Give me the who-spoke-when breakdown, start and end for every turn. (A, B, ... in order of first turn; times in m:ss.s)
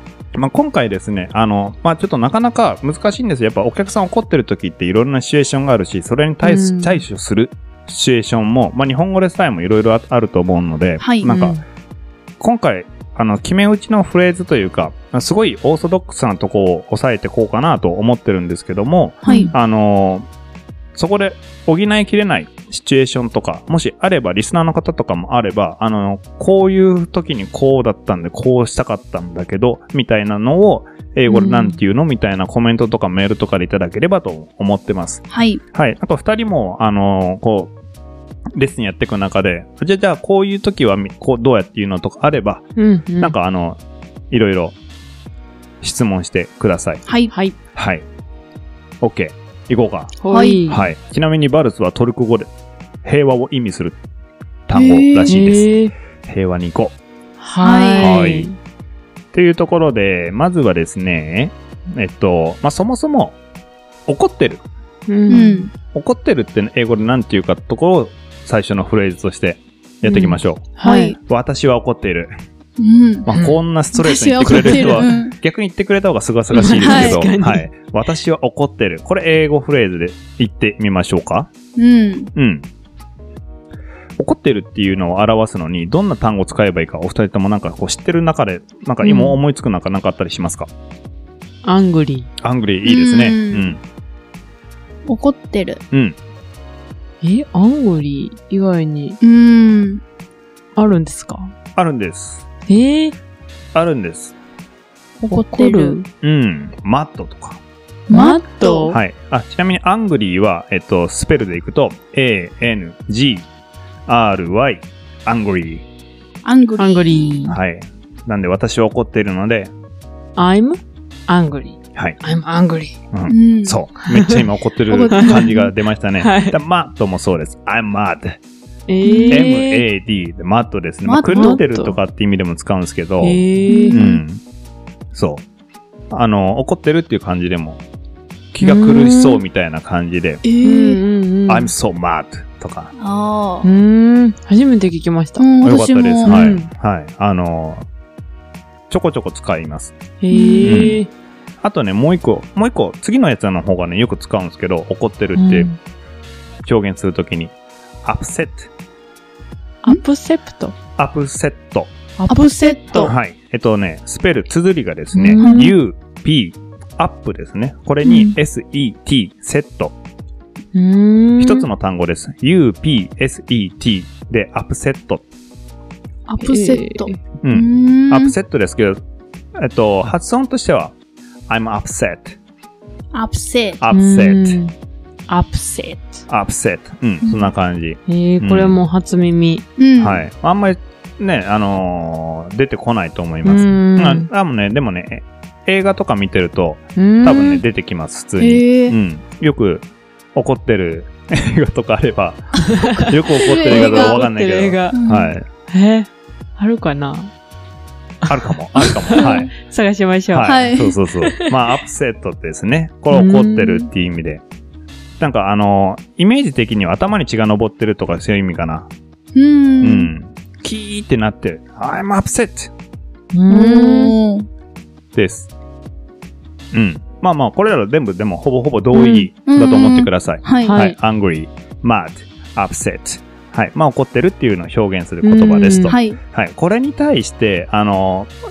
0:00.4-0:11.6 A
0:06.4-0:07.0 B
0:11.0-0:11.3 C
0:11.2-0:11.6 B
0:12.4-0:20.3 A
0:19.2-0:19.5 C
0:19.2-0:19.5 B
0:21.0-0:37.7 A
0:31.3-0:31.8 B
0:35.3-0:35.6 C
0:38.6-0:42.7 A
0:42.8-0:43.3 B
0:43.2-0:43.8 A
0:44.3-0:44.8 A
0:45.8-0:47.0 A
0:47.1-0:47.3 C
0:47.7-0:48.1 A
0:49.0-0:50.1 A
0:50.2-0:50.9 B
0:50.3-0:50.7 C
0:50.7-0:52.5 A
0:53.0-0:54.0 A
0:54.7-0:55.7 A
0:54.7-0:55.4 C
0:55.3-0:55.9 B
0:56.3-0:57.0 A
0:57.4-0:58.6 B
0:57.6-0:58.3 C
0:58.0-0:58.5 A
0:59.3-1:03.4 A
1:04.1-1:04.6 A
1:05.1-1:05.7 B
1:05.3-1:05.7 C
1:05.9-1:10.7 A
1:10.0-1:11.2 B
1:10.8-1:11.2 C
1:11.3-1:12.3 A
1:12.8-1:13.3 C
1:13.3-1:21.5 A
1:13.9-1:15.4 C
1:14.4-1:15.2 B
1:16.5-1:17.7 B
1:16.8-1:17.3 C
1:21.8-1:22.3 C
1:22.4-1:22.7 A
1:24.2-1:30.7 A
1:29.0-1:29.4 B
1:31.6-1:32.3 B
1:32.4-1:33.8 A
1:32.8-1:33.7 C
1:35.1-1:35.8 C
1:35.9-1:36.2 A
1:37.2-1:39.2 B
1:39.2-1:40.0 C
1:40.8-1:41.5 B
1:41.8-1:42.5 A
1:42.7-1:43.2 B
1:43.7-1:44.4 A
1:45.2-1:46.0 C
1:45.3-1:46.1 B
1:46.2-1:47.6 A
1:48.1-1:49.0 C
1:48.1-1:49.0 B
1:48.9-1:53.5 A
1:54.1-1:55.8 A
1:56.4-1:57.5 C
1:56.8-1:57.6 B
1:57.5-1:59.7 A
2:00.4-2:03.0 B
2:03.1-2:08.4 A
2:03.3-2:03.8 C
2:04.9-2:05.7 C
2:05.1-2:05.6 B
2:06.2-2:06.6 B
2:08.9-2:09.8 B
2:09.0-2:09.5 C
2:09.3-2:14.4 A
2:11.0-2:11.6 C
2:11.3-2:12.0 B
2:13.2-2:14.0 B
2:13.7-2:14.2 C
2:15.1-2:15.4 A
2:16.1-2:17.8 A
2:18.5-2:20.4 A
2:18.6-2:19.4 B
2:20.4-2:21.0 C
2:20.6-2:21.7 B
2:21.5-2:22.9 A
2:23.0-2:23.7 C
2:23.6-2:25.5 B
2:25.4-2:26.4 C
2:25.6-2:27.9 A
2:26.2-2:26.7 B
2:28.9-2:29.9 A
2:30.2-2:31.1 B
2:30.3-2:30.9 C
2:30.6-2:31.0 A
2:31.6-2:35.7 A
2:35.4-2:35.8 B
2:36.6-2:38.7 A
2:39.8-2:40.8 B
2:41.0-2:41.9 A
2:42.2-2:43.1 B
2:42.3-2:43.2 C
2:43.0-2:50.0 A
2:45.1-2:45.7 B
2:45.4-2:45.7 C
2:48.0-2:48.4 C
2:50.7-2:51.7 B
2:51.4-2:55.2 A
2:56.3-2:57.2 B
2:56.3-2:58.4 C
2:57.4-2:59.0 A
2:59.6-3:01.0 A
3:01.5-3:02.4 A
3:03.1-3:03.8 C
3:03.8-3:04.6 A
3:03.9-3:04.7 B
3:05.3-3:06.2 B
3:06.3-3:08.8 A
3:08.1-3:09.6 B
3:09.8-3:10.2 C
3:10.0-3:25.5 A
3:13.4-3:14.3 B
3:17.0-3:17.6 B
3:18.4-3:19.0 C
3:23.4-3:24.2 C
3:23.6-3:25.0 B
3:24.9-3:25.3 C
3:25.7-3:27.3 B
3:28.3-3:29.5 A
3:28.3-3:30.6 B
3:29.1-3:29.5 C
3:30.3-3:34.4 A
3:30.4-3:31.0 C
3:31.2-3:31.5 B
3:33.1-3:33.9 B
3:35.2-3:38.9 A
3:39.3-3:40.1 C
3:39.8-3:42.7 A
3:43.3-3:44.2 B
3:43.5-3:44.5 C
3:45.2-3:45.5 A
3:46.7-3:58.3 A
3:49.0-3:49.3 B
3:49.4-3:50.8 C
3:50.6-3:51.0 B
3:55.2-3:56.0 B
3:55.9-3:56.2 C